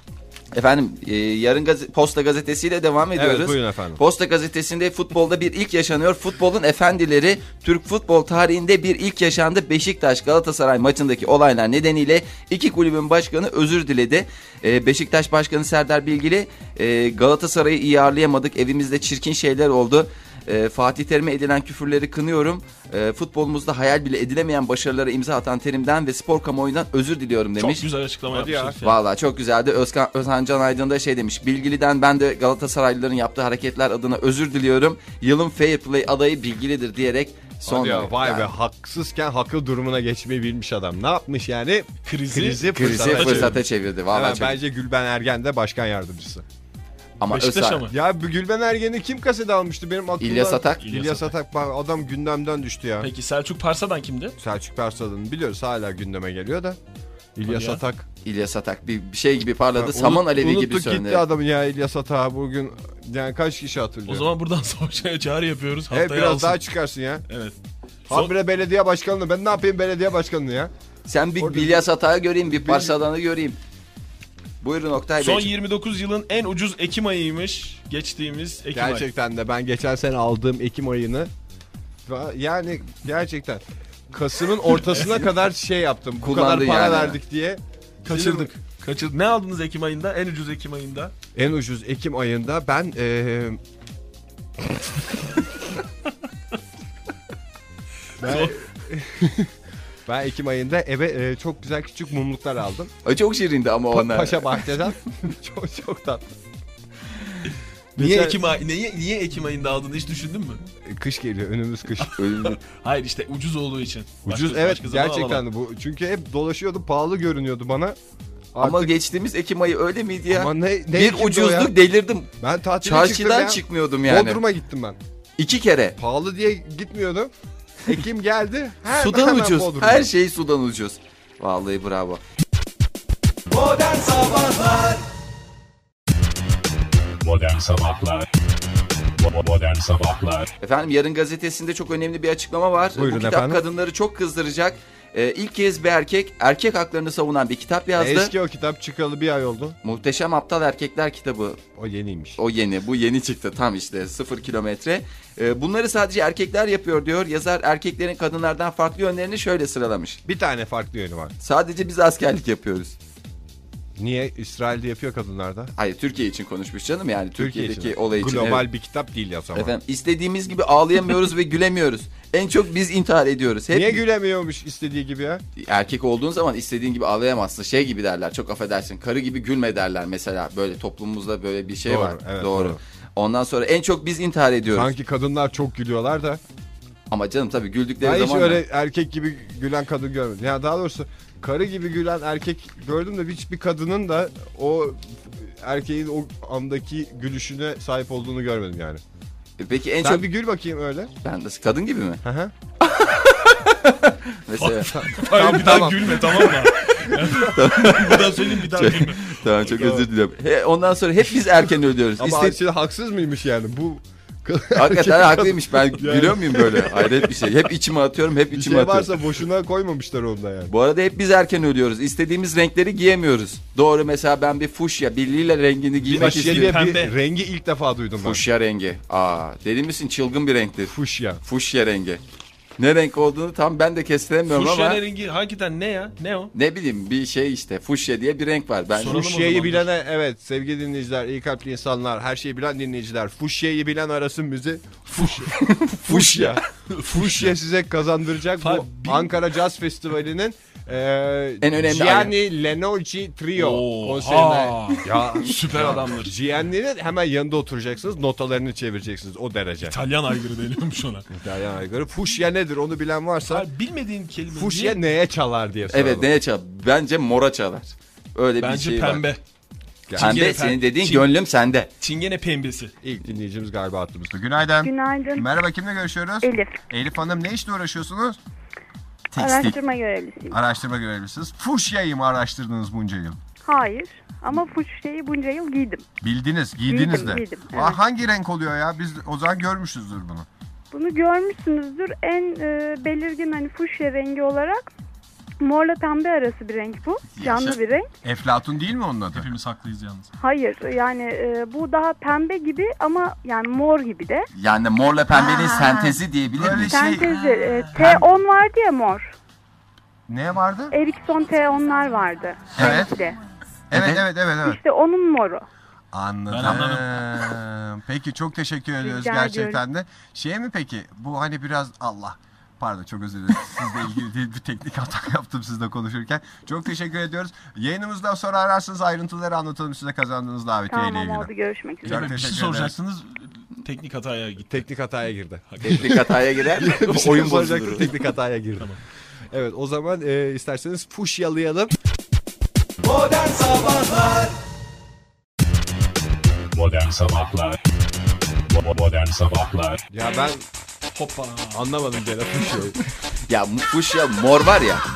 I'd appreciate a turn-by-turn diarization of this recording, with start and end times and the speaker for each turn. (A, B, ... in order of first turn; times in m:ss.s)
0:00.5-0:27.8 A
0:03.1-0:04.0 B
0:27.6-0:29.0 C
0:28.3-0:28.8 B
0:28.8-0:38.5 A
0:37.6-0:43.6 B
0:42.0-0:43.6 C
0:42.7-0:44.6 A
0:44.1-0:46.4 B
0:47.2-0:47.9 A
0:47.3-0:47.9 C
0:47.9-0:53.1 B
0:50.2-0:50.8 A
0:50.8-0:51.3 C
0:53.0-0:54.4 C
0:54.4-0:56.8 B
0:57.4-0:58.1 B
0:57.4-0:57.8 C
0:58.2-1:01.2 A
0:59.8-1:04.3 B
1:04.0-1:06.6 C
1:05.9-1:07.2 B
1:07.3-1:07.5 C
1:08.1-1:10.7 B
1:11.0-1:13.6 A
1:11.4-1:11.8 B
1:12.6-1:13.0 B
1:14.6-1:15.5 A
1:15.2-1:19.0 C
1:18.7-1:21.3 B
1:22.0-1:28.5 B
1:26.2-1:27.2 A
1:28.0-1:31.1 C
1:31.3-1:33.6 B
1:38.2-1:38.6 C
1:38.2-1:39.5 B
1:40.0-1:42.9 B
1:43.0-1:44.9 A
1:43.9-1:46.4 B
1:48.0-1:50.6 C
1:48.0-1:48.4 B
1:50.8-1:52.2 B
1:52.0-1:55.4 C
1:52.2-1:52.6 A
1:54.2-1:58.0 B
1:58.5-1:58.9 B
1:58.6-2:02.3 A
2:00.3-2:01.7 B
2:02.4-2:05.0 B
2:02.8-2:04.4 A
2:05.4-2:06.0 A
2:06.0-2:07.3 B
2:07.8-2:10.1 B
2:08.8-2:12.2 A
2:13.7-2:14.2 D
2:14.2-2:14.7 A
2:17.2-2:18.3 D
2:19.0-2:20.5 D
2:20.6-2:28.3 A
2:22.9-2:23.6 B
2:28.0-2:29.8 B
2:29.8-2:31.6 A
2:31.8-2:32.4 B
2:32.4-2:40.2 A
2:40.2-2:41.3 B
2:41.4-2:43.0 A
2:44.0-2:45.7 B
2:45.8-2:48.6 A
2:47.4-2:49.7 B
2:49.5-2:54.0 A
2:53.7-2:55.4 B
2:55.6-3:04.9 A
3:01.8-3:02.8 B
3:04.7-3:06.4 B
3:07.1-3:08.6 A
3:08.0-3:19.0 B
3:19.6-3:20.2 A
3:20.0-3:21.1 B
3:21.2-3:22.2 A
3:22.2-3:22.5 B
3:22.8-3:25.8 A
3:24.6-3:29.4 C
3:24.9-3:26.7 B
3:27.4-3:32.6 A
3:29.8-3:30.0 B
3:32.2-3:37.5 B
3:34.7-3:39.3 A
3:38.5-3:40.7 B
3:40.7-3:46.8 A
3:46.0-3:47.1 C
3:46.1-3:48.4 B
3:48.2-3:50.9 A
3:50.9-3:51.4 B
3:51.4-3:52.2 A
3:52.8-3:55.0 A
3:54.5-3:56.5 C
3:56.5-3:59.2 A
3:58.9-3:59.9 C
3:59.0-4:20.0 B
4:05.1-4:05.6 C
4:05.6-4:06.6 A
4:06.9-4:07.5 C
4:08.6-4:09.3 C
4:11.6-4:12.3 A
4:13.5-4:16.3 C
4:19.8-4:21.3 C
4:21.3-4:23.7 B
4:23.5-4:25.0 C
4:24.5-4:26.3 B
4:25.9-4:29.2 A
4:28.6-4:29.4 C
4:30.1-4:30.4 B
4:30.2-4:31.3 C
4:30.2-4:31.9 A
4:32.0-4:32.9 C
4:33.0-4:38.4 B
4:34.8-4:35.5 E
4:36.4-4:36.7 E
4:39.3-4:39.8 A
4:39.4-4:40.6 E
4:40.5-4:43.4 B
4:43.6-4:46.0 E
4:46.2-4:50.5 B
4:46.9-4:48.0 E
4:50.9-4:54.9 E
4:55.6-4:58.1 E
4:57.3-4:57.8 A
4:58.2-4:59.5 B
4:59.3-5:00.3 C
5:00.4-5:04.5 E
5:04.5-5:07.2 A
5:05.3-5:07.3 B
5:06.7-5:09.3 E
5:10.3-5:11.0 B
5:10.9-5:13.4 E
5:12.8-5:13.1 A
5:12.8-5:13.1 B
5:13.9-5:14.8 B
5:13.9-5:14.2 A
5:14.6-5:15.7 E
5:16.1-5:31.5 B
5:16.5-5:17.2 C
5:19.0-5:19.8 E
5:30.9-5:32.4 E
5:32.0-5:33.0 B
5:32.0-5:34.8 C
5:34.7-5:39.0 B
5:35.7-5:36.2 C
5:35.8-5:38.1 A
5:39.5-5:41.9 B
5:43.0-5:44.5 D
5:46.7-5:47.8 D
5:48.6-5:50.0 D
5:50.1-5:50.6 B
5:51.1-5:51.8 C
5:51.7-5:53.0 B
5:53.5-5:55.0 A